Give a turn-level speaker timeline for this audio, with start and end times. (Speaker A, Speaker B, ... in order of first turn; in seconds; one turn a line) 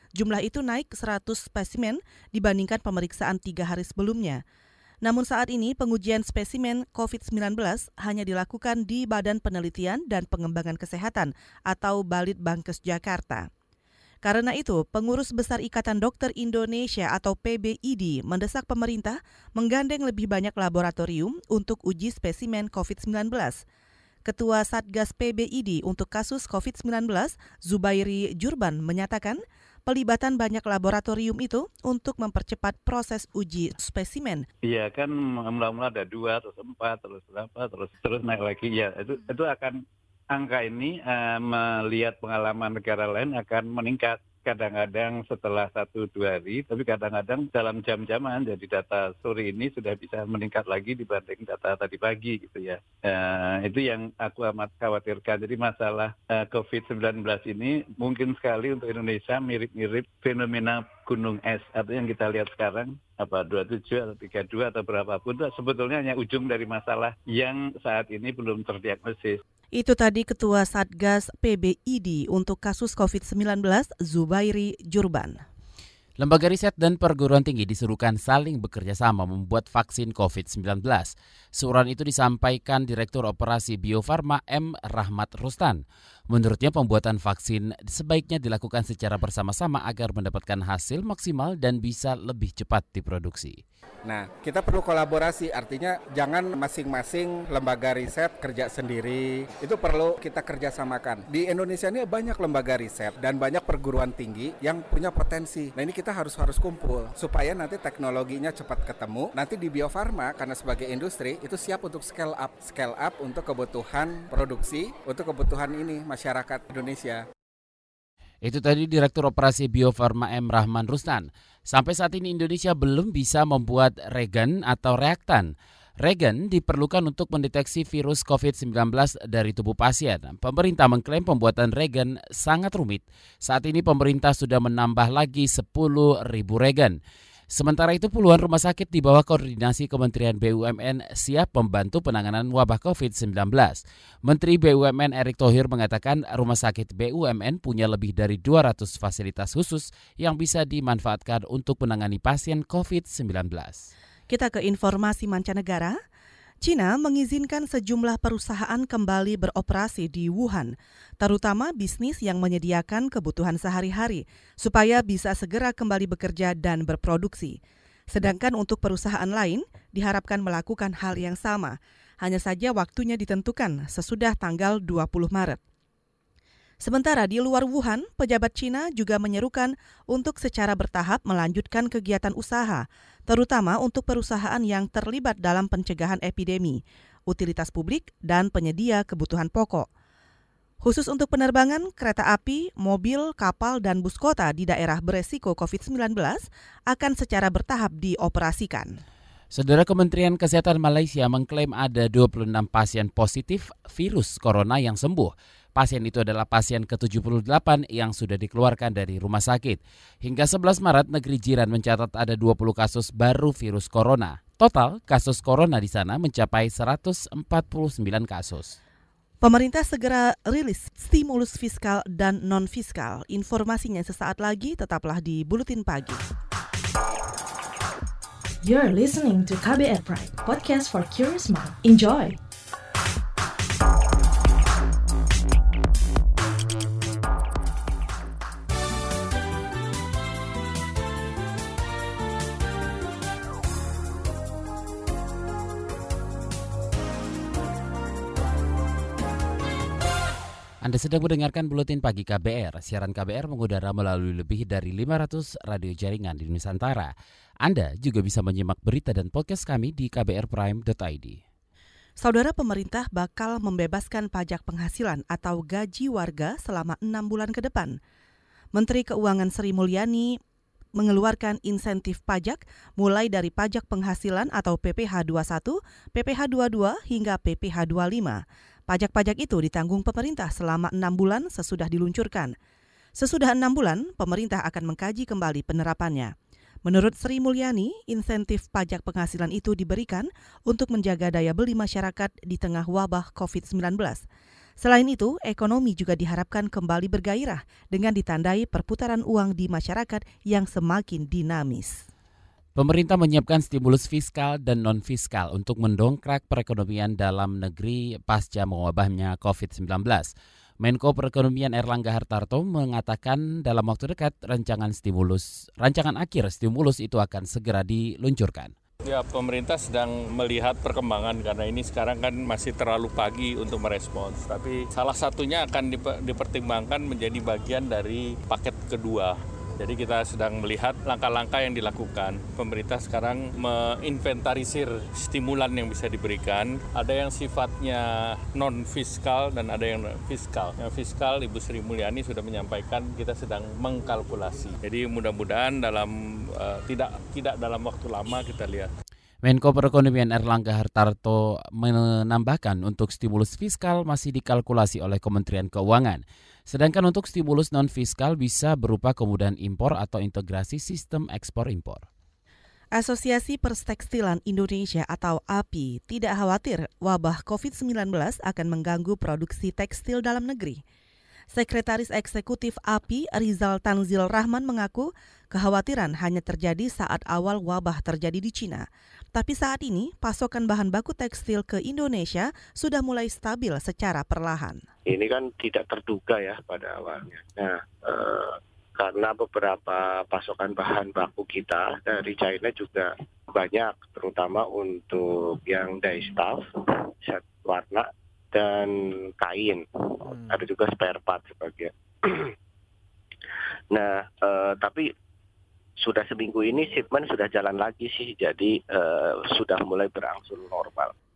Speaker A: 0.1-4.4
Speaker A: 5.0-13.5
Speaker A: 14.2-23.6
Speaker A: 24.2-34.5
Speaker B: 34.6-39.8
Speaker B: 40.3-69.4
Speaker A: 69.7-75.4
Speaker C: 76.2-93.6
Speaker D: 94.0-117.2
Speaker C: 118.4-137.0
Speaker C: 137.5-153.9
Speaker A: 154.3-156.0
Speaker A: 156.6-167.6
Speaker A: 168.1-175.6
Speaker A: 176.8-189.9
Speaker A: 190.8-198.9
Speaker C: 199.5-218.8
Speaker A: 219.4-226.2
Speaker E: 228.6-232.4
Speaker C: 250.8-257.1
Speaker C: 257.6-261.4
Speaker A: 262.2-268.0
Speaker A: 268.7-270.4
Speaker A: 271.0-282.5
Speaker A: 283.2-286.3
Speaker A: 286.9-294.2
Speaker A: 294.8-302.0
Speaker C: 302.8-318.7
Speaker F: 319.1-348.9
Speaker C: 349.4-362.1
Speaker A: 362.9-370.8
Speaker A: 371.5-384.8
Speaker G: 385.1-402.5
Speaker G: 403.9-405.1
Speaker G: 406.0-411.1